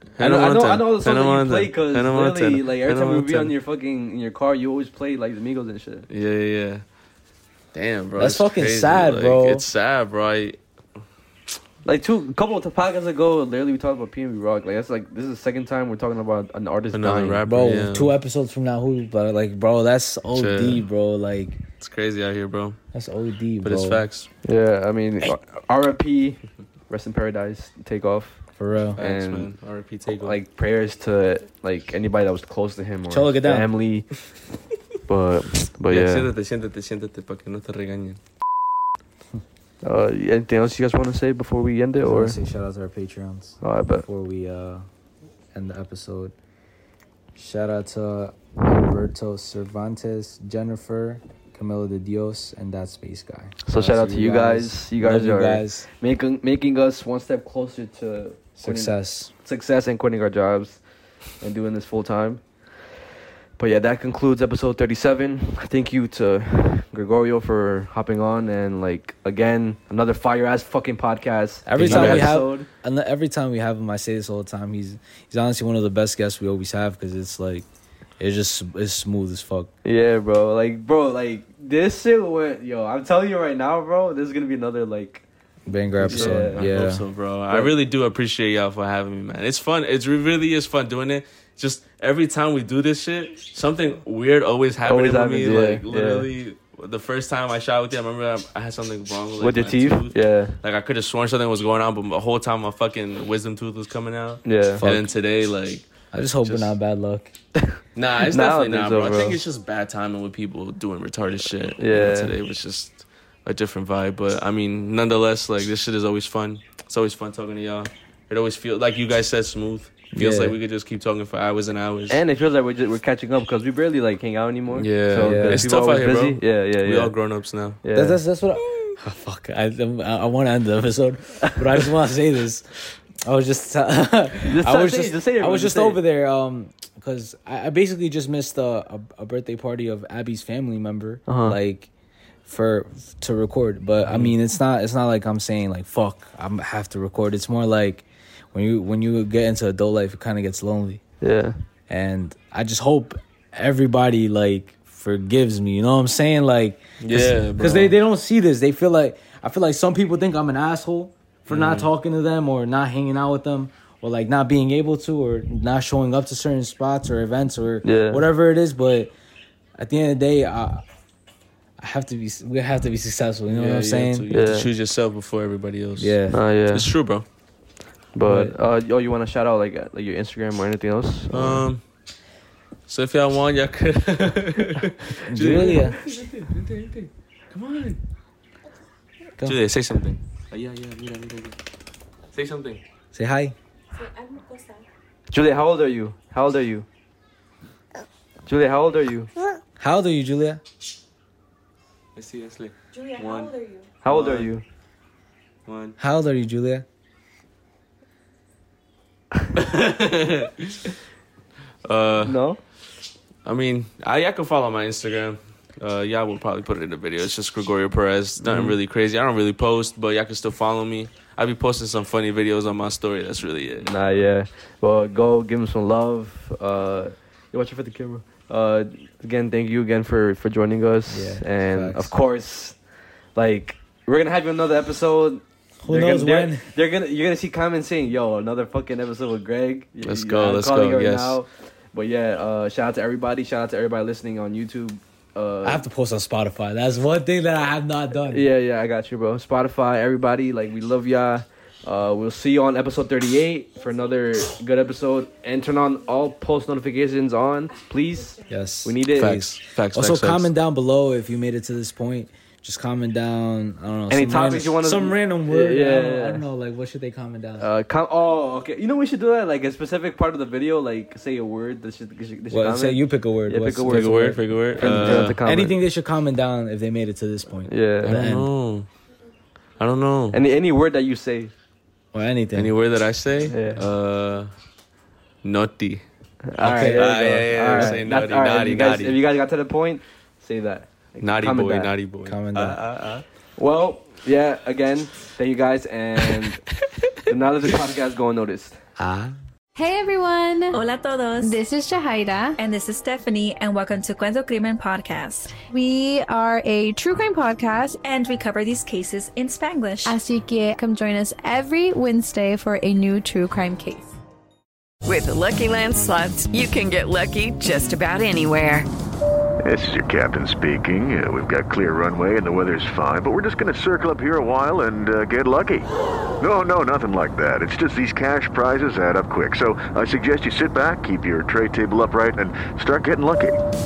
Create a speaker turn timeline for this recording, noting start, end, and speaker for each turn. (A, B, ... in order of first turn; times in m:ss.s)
0:00.2-0:03.5 A
0:00.2-0:06.1 B
0:06.1-0:06.8 A
0:07.7-0:10.6 A
0:08.2-0:09.6 C
0:11.8-0:17.4 B
0:16.9-0:18.1 A
0:17.5-0:21.6 C
0:20.3-0:20.8 A
0:21.8-0:22.8 A
0:22.9-0:24.0 C
0:23.6-0:24.3 A
0:24.4-0:28.4 B
0:28.6-0:29.0 C
0:29.0-0:29.5 B
0:29.0-0:30.4 A
0:30.1-0:34.2 B
0:33.1-0:33.7 C
0:35.1-0:36.3 B
0:35.9-0:38.2 A
0:39.8-0:42.4 B
0:42.0-0:44.9 C
0:43.6-0:44.0 B
0:45.5-0:46.3 C
0:47.3-0:55.9 C
0:53.6-1:00.8 B
0:58.6-0:59.3 C
1:01.4-1:02.4 B
1:03.6-1:12.7 B
1:11.6-1:17.6 C
1:11.8-1:12.3 A
1:18.2-1:19.7 C
1:19.8-1:25.2 B
1:25.7-1:27.0 C
1:26.0-1:45.9 A
1:26.0-1:26.7 B
1:34.8-1:36.3 B
1:39.4-1:40.5 B
1:44.4-1:44.8 B
1:44.8-1:45.1 C
1:46.1-1:47.3 C
1:46.4-1:46.7 A
1:47.6-1:49.4 B
1:48.0-2:02.2 A
1:51.8-1:52.3 B
2:00.1-2:00.6 C
2:02.1-2:07.1 B
2:04.7-2:07.8 A
2:05.2-2:05.6 C
2:07.8-2:08.2 B
2:07.9-2:12.7 C
2:13.2-2:21.9 C
2:14.5-2:16.0 B
2:21.3-2:21.6 B
2:22.4-2:31.0 C
2:31.2-2:31.6 B
2:31.9-2:49.1 C
2:37.0-2:38.0 A
2:41.5-2:41.9 A
2:47.8-2:48.2 B
2:49.8-2:50.8 C
2:51.8-2:54.3 C
2:53.5-2:56.2 A
2:54.3-2:54.7 B
2:56.0-2:56.4 C
2:56.3-2:56.9 B
2:56.7-2:57.2 A
2:58.1-3:01.6 B
2:58.2-2:58.5 C
3:01.3-3:01.8 A
3:02.9-3:08.0 A
3:05.2-3:06.0 C
3:09.4-3:11.6 A
3:12.3-3:12.8 A
3:13.1-3:13.5 C
3:13.9-3:14.9 D
3:15.3-3:16.8 B
3:18.4-3:19.3 B
3:19.8-3:20.6 C
3:22.1-3:23.5 A
3:22.9-3:23.9 D
3:24.0-3:24.6 B
3:24.1-3:24.5 A
3:25.6-3:26.0 A
3:26.0-3:26.8 C
3:29.5-3:31.0 A
3:31.8-3:32.4 A
3:32.2-3:32.6 B
3:33.4-3:44.2 A
3:38.5-3:38.8 B
3:43.8-3:52.8 B
3:51.1-3:52.1 C
3:53.3-4:05.8 B
3:55.8-3:56.7 C
4:00.0-4:01.4 A
4:05.6-4:08.4 C
4:08.3-4:19.4 B
4:18.5-4:19.0 C
4:19.1-4:20.5 A
4:19.9-4:27.7 C
4:24.1-4:26.4 B
4:27.6-4:35.8 B
4:32.5-4:38.5 C
4:33.8-4:35.4 A
4:37.7-4:38.1 B
4:38.0-4:38.9 A
4:39.8-4:40.4 A
4:40.3-4:41.5 B
4:42.1-4:42.7 C
4:42.5-4:44.5 A
4:43.5-4:43.8 B
4:45.4-4:46.0 A
4:46.5-4:51.9 B
4:46.6-4:47.1 C
4:46.8-4:49.2 A
4:47.7-4:48.0 C
4:51.2-4:53.2 A
4:52.2-4:52.8 C
4:53.6-4:56.6 B
4:57.2-4:58.8 B
4:59.0-4:59.4 C
4:59.7-5:00.8 E
5:00.7-5:01.6 F
5:01.4-5:02.6 E
5:02.6-5:05.6 F
5:05.7-5:08.0 E
5:08.0-5:10.2 F
5:10.0-5:14.1 E
5:15.0-5:18.9 G
5:19.6-5:25.9 H
5:26.4-5:33.6 H